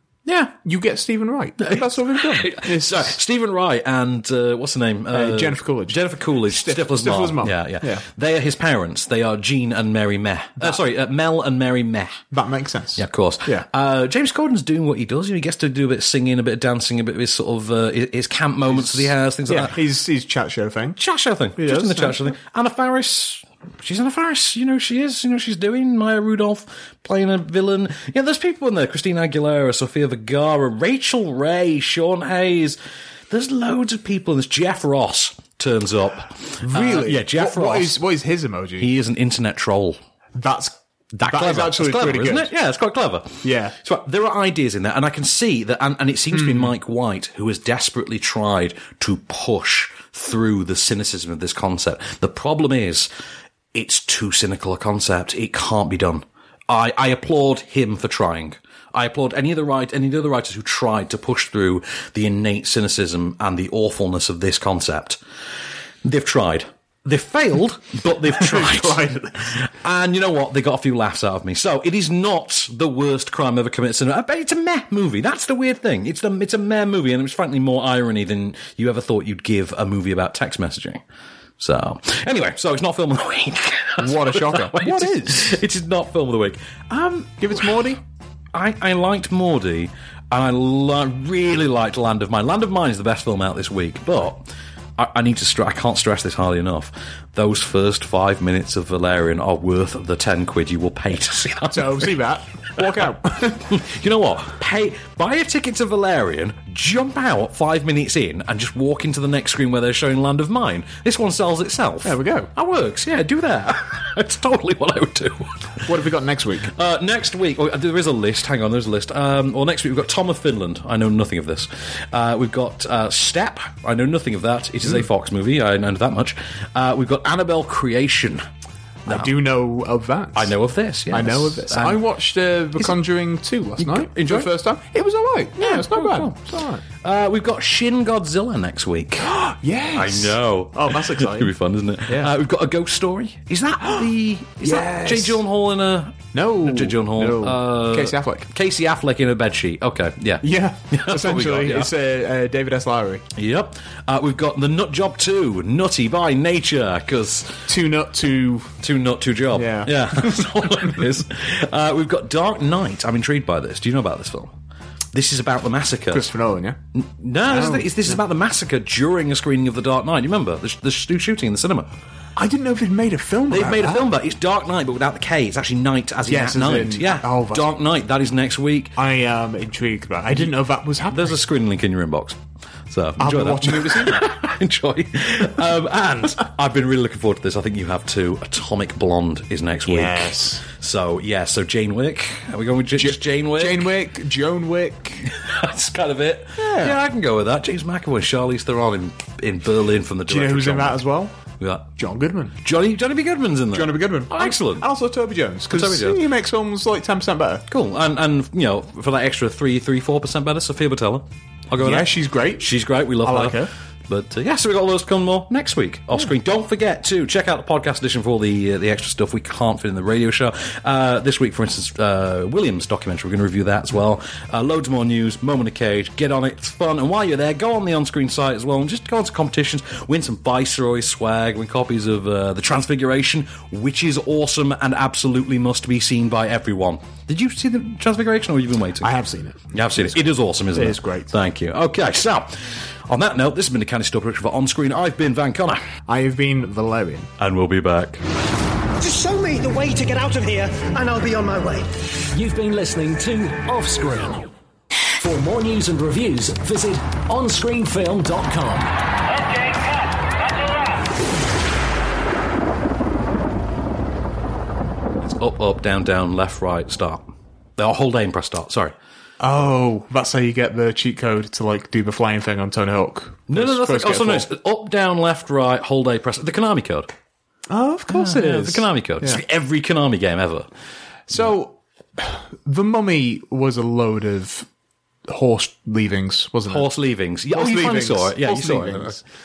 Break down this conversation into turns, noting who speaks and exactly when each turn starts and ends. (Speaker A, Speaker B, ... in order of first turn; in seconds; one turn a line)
Speaker A: 0.2-0.5
Speaker B: 0.5-3.2
Speaker A: 1.6-12.2
Speaker B: 5.1-8.0
Speaker B: 12.3-13.7
Speaker A: 13.0-19.8
Speaker B: 18.7-21.0
Speaker A: 21.0-32.8
Speaker B: 21.6-22.3
Speaker A: 33.3-38.0
Speaker B: 36.6-38.9
Speaker A: 38.8-40.0
Speaker B: 40.3-42.5
Speaker A: 41.1-53.1
Speaker B: 43.4-43.8
Speaker B: 46.3-46.7
Speaker A: 53.7-65.2
Speaker A: 66.0-81.0
Speaker B: 68.2-69.6
Speaker A: 81.6-87.7
Speaker B: 84.0-85.6
Speaker B: 87.4-88.0
Speaker A: 88.5-94.5
Speaker A: 95.0-102.1
Speaker B: 101.7-103.7
Speaker A: 103.7-115.5
Speaker B: 112.0-112.5
Speaker B: 115.8-116.7
Speaker A: 116.7-128.4
Speaker B: 129.1-130.5
Speaker A: 130.3-132.0
Speaker B: 131.1-136.8
Speaker A: 133.8-134.5
Speaker A: 135.6-136.4
Speaker A: 137.0-139.3
Speaker B: 139.2-141.5
Speaker A: 139.9-151.9
Speaker B: 142.1-142.3
Speaker B: 144.6-145.4
Speaker B: 146.3-148.5
Speaker B: 150.4-153.2
Speaker A: 153.3-157.7
Speaker B: 157.7-158.8
Speaker A: 158.8-164.5
Speaker B: 159.5-161.0
Speaker A: 165.1-166.3
Speaker B: 166.1-166.8
Speaker A: 166.9-171.9
Speaker B: 167.5-168.2
Speaker B: 172.3-174.1
Speaker A: 173.5-178.9
Speaker B: 176.3-177.7
Speaker B: 178.9-181.4
Speaker A: 181.1-193.9
Speaker B: 183.2-184.2
Speaker B: 189.9-190.6
Speaker B: 192.9-195.3
Speaker A: 195.3-201.0
Speaker B: 196.6-197.0
Speaker B: 200.3-201.4
Speaker A: 201.6-201.8
Speaker B: 201.9-202.5
Speaker A: 202.6-204.8
Speaker B: 203.7-207.6
Speaker A: 205.7-206.2
Speaker A: 207.7-239.1
Speaker B: 211.8-212.7
Speaker B: 213.2-213.7
Speaker B: 239.0-241.3
Speaker A: 239.7-245.8
Speaker B: 246.1-247.3
Speaker A: 247.4-248.2
Speaker C: 249.0-251.9
Speaker D: 252.3-254.5
Speaker D: 255.2-258.9
Speaker A: 265.2-268.9
Speaker B: 269.4-274.5
Speaker A: 273.5-277.1
Speaker B: 277.7-279.4
Speaker A: 278.1-280.6
Speaker B: 281.3-284.7
Speaker B: 285.3-286.9
Speaker A: 286.7-289.2
Speaker B: 287.5-289.2